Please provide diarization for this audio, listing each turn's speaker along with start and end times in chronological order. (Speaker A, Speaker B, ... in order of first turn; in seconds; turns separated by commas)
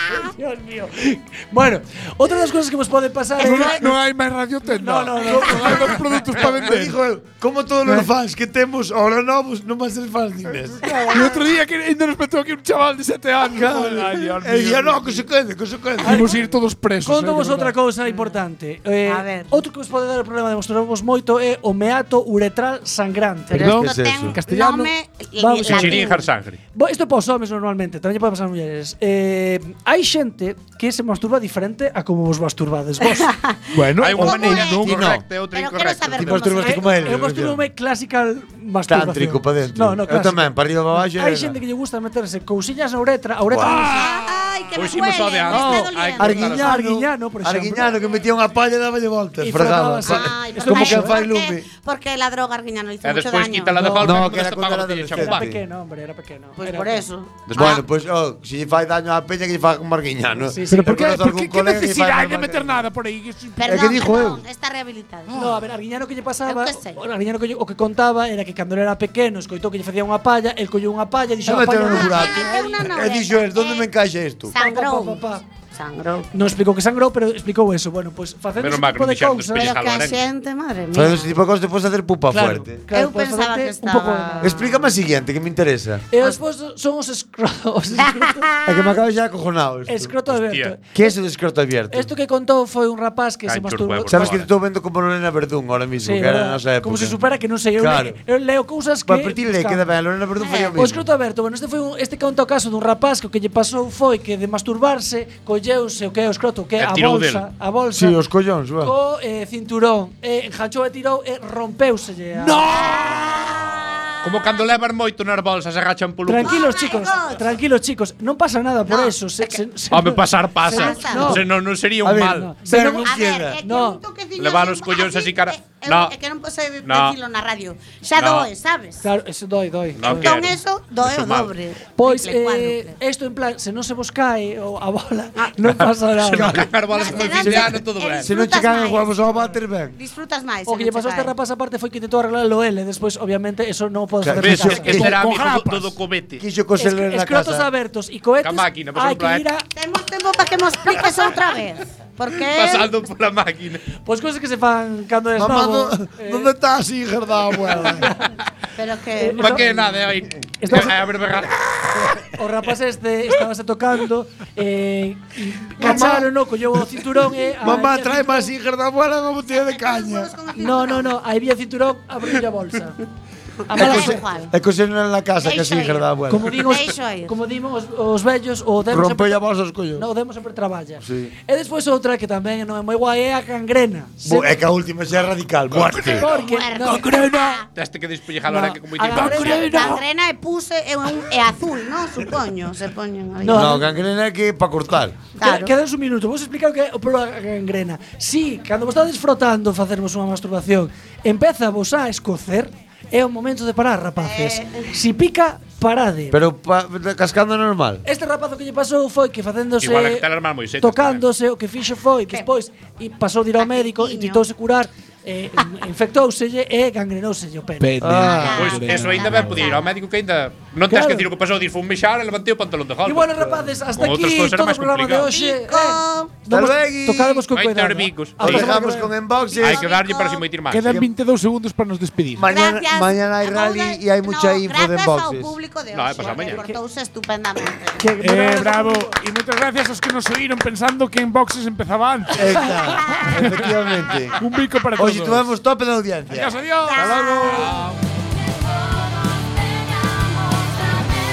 Speaker A: 0.1-4.0, Speaker B: 3.4-6.9, Speaker A: 4.7-6.2, Speaker C: 5.2-10.8, Speaker A: 10.8-11.4, Speaker D: 10.9-11.3, Speaker B: 11.1-15.2, Speaker C: 13.5-16.4, Speaker A: 13.6-14.2, Speaker B: 16.0-17.8, Speaker A: 16.0-23.7, Speaker D: 18.0-18.4, Speaker D: 19.1-19.6, Speaker C: 23.5-24.3, Speaker B: 23.5-24.9, Speaker D: 23.5-26.2, Speaker A: 25.4-26.2, Speaker E: 25.7-26.6, Speaker A: 26.7-33.3, Speaker D: 33.1-34.8, Speaker B: 33.7-35.0, Speaker E: 34.0-36.7, Speaker C: 34.2-35.2, Speaker D: 35.5-37.2, Speaker C: 36.1-37.6, Speaker A: 36.6-44.0, Speaker C: 38.9-41.6, Speaker E: 43.5-43.9, Speaker D: 43.6-46.4, Speaker E: 44.7-46.7, Speaker C: 45.5-51.7, Speaker A: 46.4-47.9, Speaker A: 49.4-51.1, Speaker D: 50.0-53.9, Speaker E: 53.0-55.5, Speaker C: 54.0-55.6, Speaker A: 55.1-57.0, Speaker D: 56.6-57.8, Speaker C: 57.5-62.8, Speaker A: 60.5-61.1, Speaker B: 60.7-63.9, Speaker D: 63.5-65.4, Speaker C: 63.6-64.4, Speaker B: 65.3-65.6, Speaker A: 65.3-72.9, Speaker D: 66.4-67.0, Speaker C: 71.4-74.5, Speaker D: 71.9-73.9, Speaker D: 74.5-76.3, Speaker A: 74.5-75.4, Speaker A: 76.3-79.7, Speaker E: 78.6-80.2, Speaker D: 79.6-81.3, Speaker C: 80.9-82.8, Speaker A: 82.3-84.6, Speaker D: 82.9-84.9, Speaker C: 84.4-86.1, Speaker A: 86.1-88.5, Speaker C: 88.7-90.2, Speaker A: 89.9-91.1, Speaker E: 90.3-90.7, Speaker C: 90.9-92.1, Speaker A: 91.9-94.4, Speaker E: 93.5-94.5, Speaker C: 94.1-97.2, Speaker A: 96.0-99.8, Speaker C: 97.8-98.2, Speaker C: 99.0-101.0, Speaker D: 100.4-100.7, Speaker A: 100.8-108.2, Speaker E: 106.8-107.5, Speaker C: 107.9-108.9, Speaker A: 108.8-112.6, Speaker B: 112.4-113.5, Speaker D: 112.7-114.5, Speaker E: 114.2-116.6, Speaker A: 116.2-121.4, Speaker D: 116.4-117.4, Speaker D: 118.9-119.6, Speaker E: 119.9-122.5, Speaker D: 120.7-121.4, Speaker C: 122.0-123.6, Speaker A: 122.2-124.0, Speaker D: 122.9-129.1, Speaker E: 124.4-126.1, Speaker E: 126.8-127.2, Speaker E: 128.2-128.5, Speaker A: 129.0-130.4, Speaker E: 130.0-131.5, Speaker D: 130.0-132.9, Speaker A: 132.0-136.5, Speaker E: 135.7-138.3, Speaker C: 136.3-139.9, Speaker D: 136.9-139.4, Speaker D: 139.9-141.3, Speaker A: 140.7-145.1, Speaker C: 144.2-145.1, Speaker E: 144.3-146.4, Speaker B: 144.9-146.0, Speaker C: 146.4-147.7, Speaker A: 146.8-149.7, Speaker E: 148.4-149.4, Speaker D: 149.8-152.9, Speaker E: 152.4-153.8, Speaker A: 154.0-156.5, Speaker C: 155.4-158.1, Speaker A: 157.9-158.3, Speaker D: 158.8-159.6, Speaker A: 159.2-159.9, Speaker E: 159.4-162.1, Speaker A: 160.6-160.9, Speaker A: 162.3-168.5, Speaker C: 165.8-170.3, Speaker D: 169.5-171.2, Speaker A: 170.6-173.0, Speaker D: 173.6-174.5, Speaker A: 173.7-174.2, Speaker C: 173.7-176.7, Speaker D: 175.4-177.3, Speaker A: 176.3-179.4, Speaker C: 178.9-180.1, Speaker A: 179.9-184.5, Speaker C: 181.0-181.3, Speaker C: 184.2-186.2, Speaker A: 186.0-187.4, Speaker D: 186.1-187.6, Speaker B: 186.8-187.6, Speaker E: 187.7-189.9, Speaker A: 188.4-190.0, Speaker D: 189.0-193.8, Speaker B: 189.1-189.9, Speaker A: 193.4-193.9, Speaker C: 193.5-195.2, Speaker D: 195.4-195.7, Speaker A: 195.4-206.4, Speaker D: 204.2-204.9, Speaker C: 206.3-208.0, Speaker A: 208.0-210.2, Speaker E: 209.8-211.2, Speaker A: 210.8-217.9, Speaker D: 213.6-214.5, Speaker B: 217.8-219.7, Speaker C: 218.0-218.6, Speaker D: 218.1-219.9, Speaker E: 218.6-225.3, Speaker A: 220.9-221.2, Speaker A: 223.0-229.1, Speaker D: 225.2-226.3, Speaker C: 226.5-227.5, Speaker E: 227.5-228.7, Speaker C: 228.4-229.9, Speaker D: 229.4-230.5, Speaker E: 229.6-231.0, Speaker B: 230.7-232.4, Speaker C: 232.3-235.6, Speaker D: 232.4-238.2, Speaker E: 235.9-236.8, Speaker C: 238.0-239.0, Speaker B: 238.2-243.7, Speaker A: 238.3-239.0, Speaker C: 242.3-244.4, Speaker D: 242.8-243.3, Speaker B: 244.3-245.5, Speaker C: 244.9-247.7, Speaker B: 246.3-247.9, Speaker D: 246.8-247.7